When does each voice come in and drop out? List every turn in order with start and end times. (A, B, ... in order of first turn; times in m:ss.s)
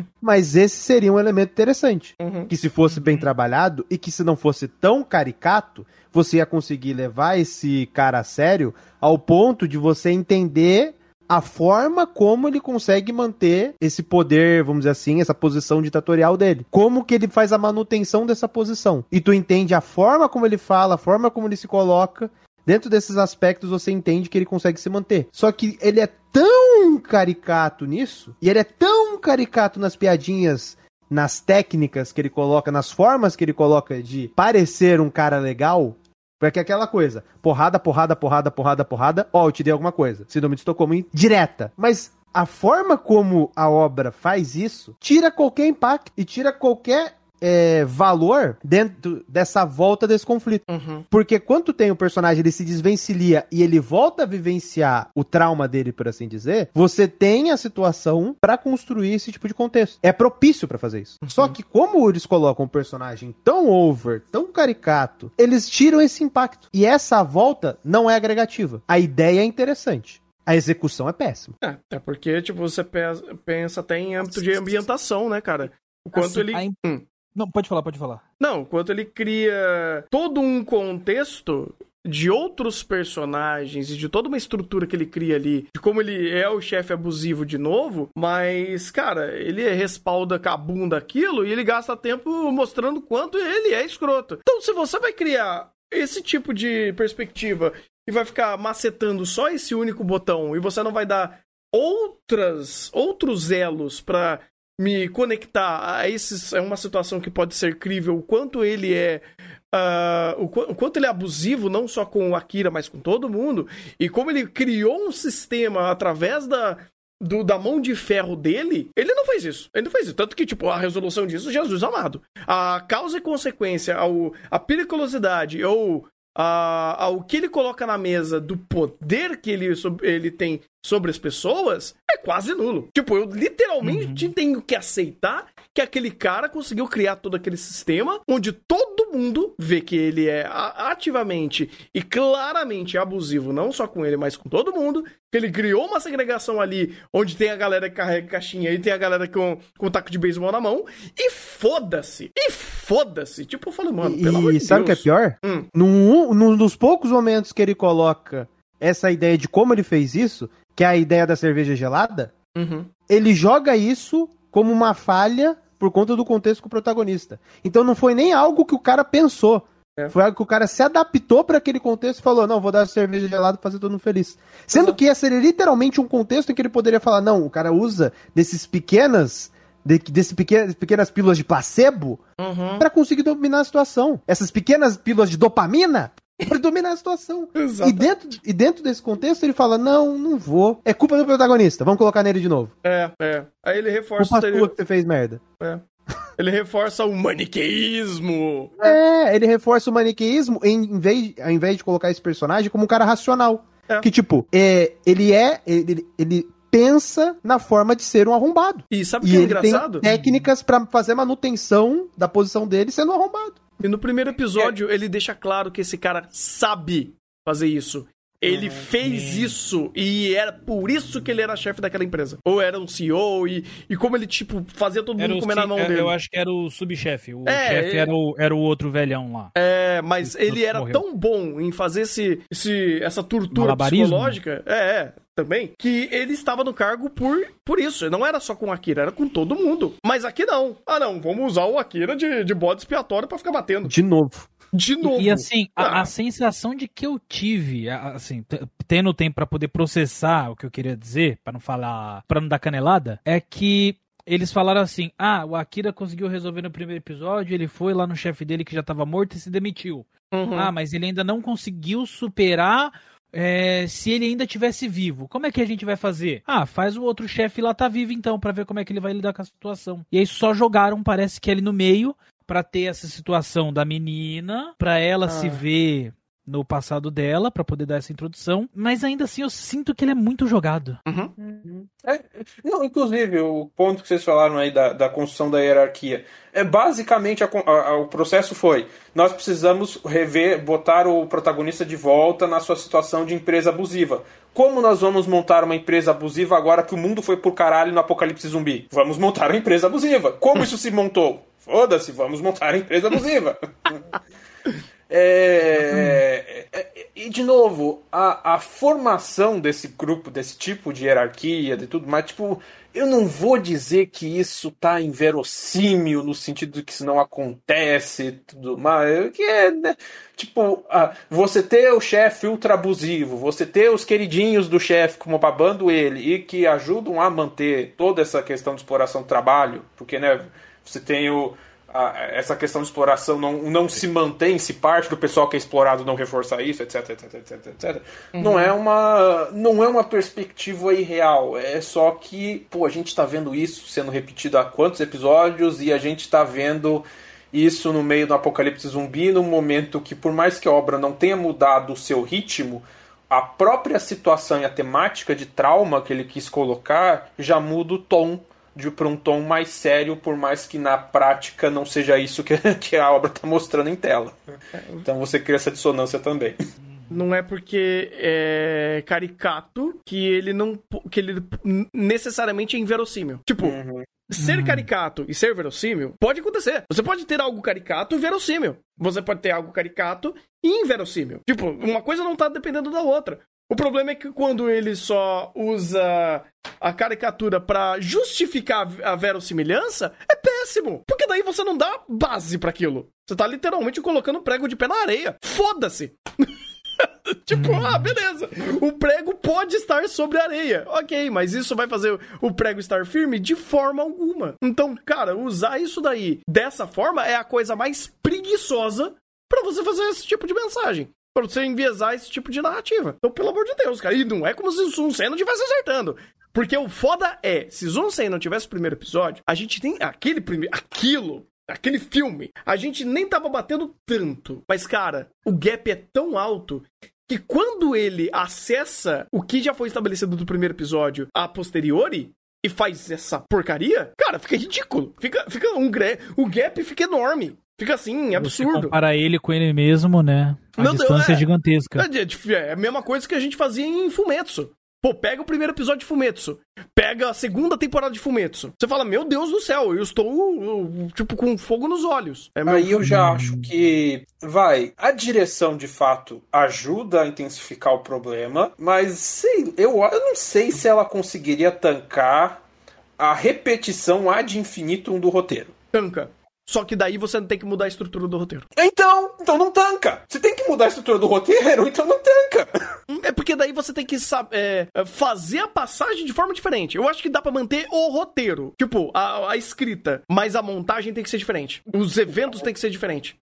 0:00.2-1:11.5 A
0:02.2-0:02.5 B
0:03.0-0:03.2 C
0:50.7-0:51.0 B
1:01.2-1:01.6 B
1:11.6-1:17.0 B
1:16.2-1:16.8 C
1:17.4-1:18.2 C
1:18.4-2:35.7 B
2:13.8-2:14.3 C
2:34.0-2:42.3 A
2:42.6-2:42.9 B
2:43.1-3:02.2 A
3:02.4-3:02.9 B
3:02.8-3:12.7 A
3:07.6-3:08.1 B
3:12.8-3:14.7 B
3:14.2-3:15.4 A
3:16.4-3:19.0 B
3:18.8-3:33.6 A
3:28.9-3:30.0 B
3:30.0-3:30.4 C
3:33.8-3:46.1 B
3:38.5-3:39.5 C
3:45.2-3:49.5 C
3:47.4-3:48.1 B
3:49.6-4:03.9 B
3:50.2-3:51.0 C
3:53.5-3:54.4 C
4:03.8-4:04.5 A
4:04.7-4:06.1 B
4:05.0-4:41.0 C
4:20.3-4:20.7 B
4:35.2-4:35.6 B
4:41.1-4:41.3 B
4:41.4-5:04.1 D
5:05.1-6:04.4 D
5:05.9-5:06.2 C
5:38.4-5:38.7 B
6:04.8-6:05.0 B
6:05.0-6:06.6 D
6:07.1-6:13.8 B
6:13.6-6:14.1 D
6:14.3-6:36.5 B
6:14.4-6:14.9 C
6:37.0-7:19.0 B
6:37.5-6:38.2 C
7:18.4-7:22.1 C
7:20.8-7:33.0 B
7:32.7-7:42.6 D
7:33.0-7:33.7 C
7:43.2-7:45.7 D
7:45.9-7:48.7 B
7:48.8-7:52.7 D
7:53.1-8:03.4 B